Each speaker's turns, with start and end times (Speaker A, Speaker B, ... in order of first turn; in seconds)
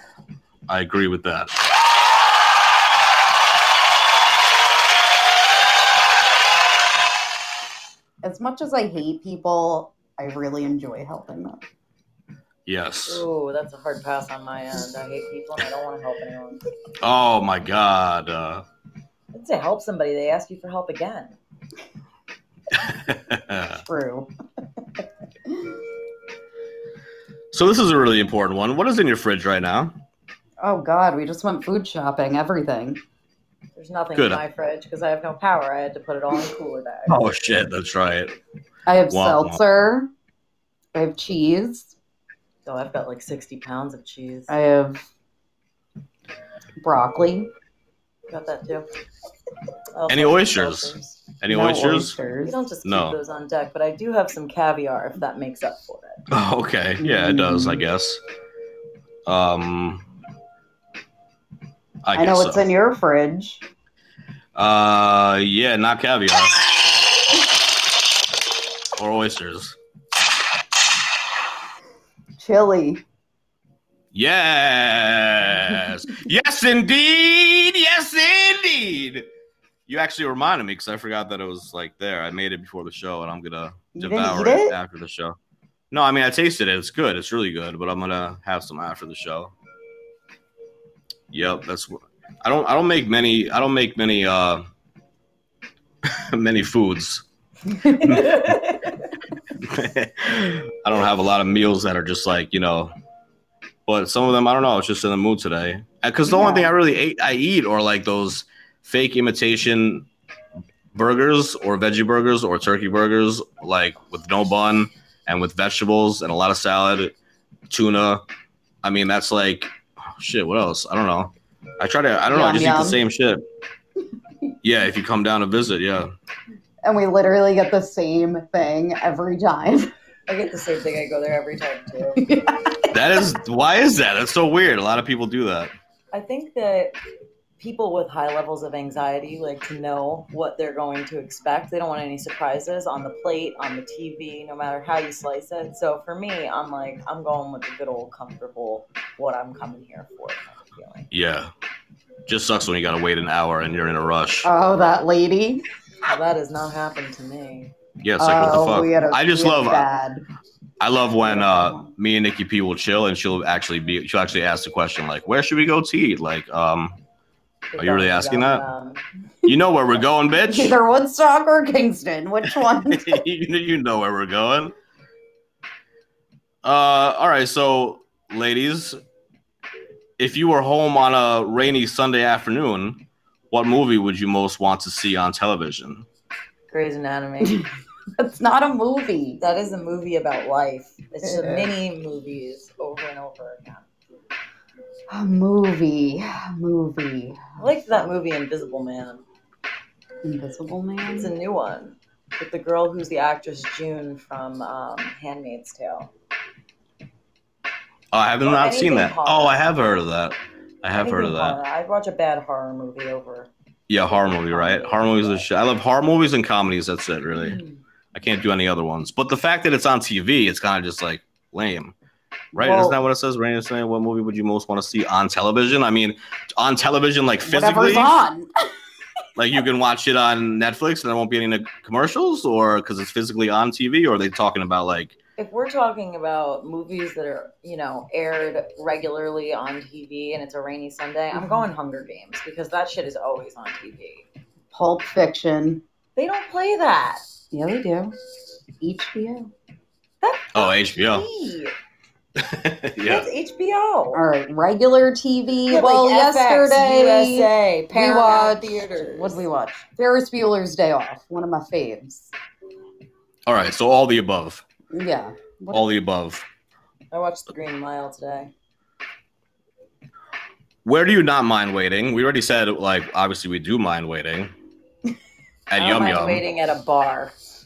Speaker A: 0.7-1.6, 12.7-13.2, 17.0-18.6, 22.8-23.8, 27.5-30.0, 34.1-34.4, 37.1-38.4, 39.1-39.6, 50.1-52.2, 52.9-53.1, 56.3-58.2, 59.3-60.0, 62.0-62.7, 64.5-66.6, 69.0-69.8, 74.1-79.3, 79.9-85.4, 85.9-89.5, 91.3-94.7, 96.0-97.2, 97.9-98.5, 99.6-102.9, 103.9-110.1, 110.9-117.1, 117.7-118.2, 118.8-123.5, 124.6-126.1, 132.9-135.7, 151.1-151.5, 152.3-154.5, 158.0-159.9, 160.8-167.0, 167.8-168.6, 169.4-170.8, 172.9-174.8, 176.6-179.0, 180.2-186.1, 208.1-211.6, 213.9-217.6, 218.1-221.9, 222.6-228.2, 229.4-235.2, 250.5-251.3, 252.4-253.3, 263.5-264.6, 265.7-266.4, 270.8-274.5, 275.7-276.4
Speaker B: 8.2-11.6, 23.8-24.3, 30.6-33.0, 38.9-40.1, 40.9-41.9, 44.5-45.0, 46.8-47.5, 51.5-52.6, 57.0-57.8, 62.1-63.6, 72.4-73.0, 83.9-84.8, 106.3-106.7, 122.3-123.0, 126.8-129.9, 132.3-132.8, 154.4-155.6, 158.2-160.2, 161.2-161.9, 170.5-173.1, 188.2-189.4, 191.2-191.7, 195.1-198.0, 200.2-201.3, 222.5-223.0, 227.4-228.5, 241.3-241.6, 244.7-245.8, 247.5-248.1, 248.8-249.5, 254.1-262.3, 264.9-265.8
Speaker C: 13.1-16.6, 19.3-21.4, 33.8-37.2, 42.6-44.5, 48.3-48.9, 49.9-51.1, 52.4-56.2, 97.9-98.9, 130.3-132.3, 136.1-136.9, 137.6-151.1, 156.1-157.7, 167.7-169.0, 186.7-187.7, 189.4-193.9, 197.6-199.2, 201.2-206.1, 208.4-209.6, 210.9-213.5, 214.1-215.4, 217.4-217.8, 235.4-244.3, 246.2-247.2, 250.2-251.7, 253.0-254.2, 255.7-259.4, 267.1-268.5, 275.8-277.3